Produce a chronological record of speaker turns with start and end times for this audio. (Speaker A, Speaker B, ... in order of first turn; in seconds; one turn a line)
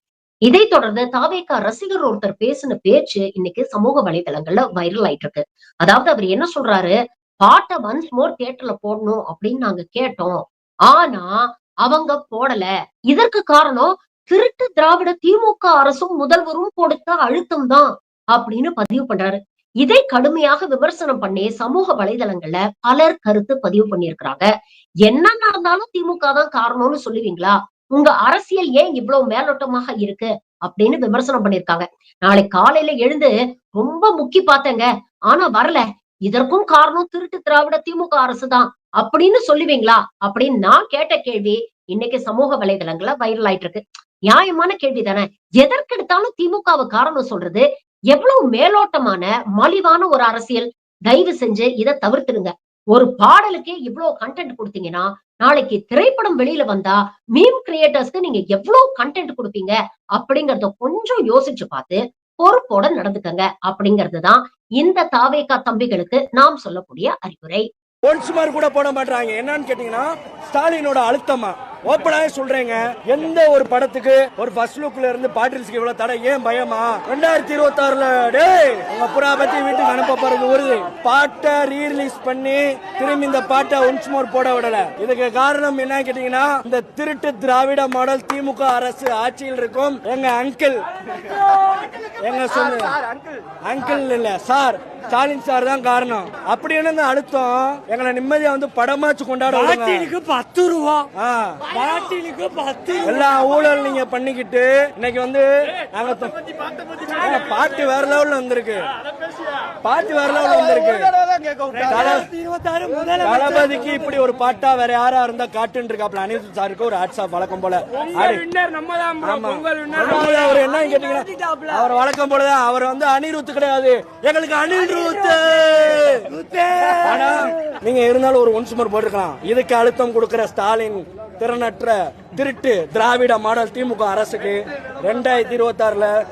Speaker A: 0.5-24.4
Speaker A: 25.0-67.7
Speaker B: 68.0-90.8
Speaker B: 92.2-93.0
Speaker B: 93.6-100.1
Speaker C: 99.5-101.1
Speaker B: 101.1-101.6
Speaker C: 101.7-103.2
Speaker B: 103.0-106.3
Speaker B: 107.2-108.8
Speaker B: 109.8-111.1
Speaker C: 111.7-113.8
Speaker B: 111.9-112.3
Speaker B: 113.2-118.5
Speaker C: 118.0-121.8
Speaker B: 119.2-126.3
Speaker C: 124.9-125.4
Speaker C: 126.3-127.5
Speaker B: 127.0-136.1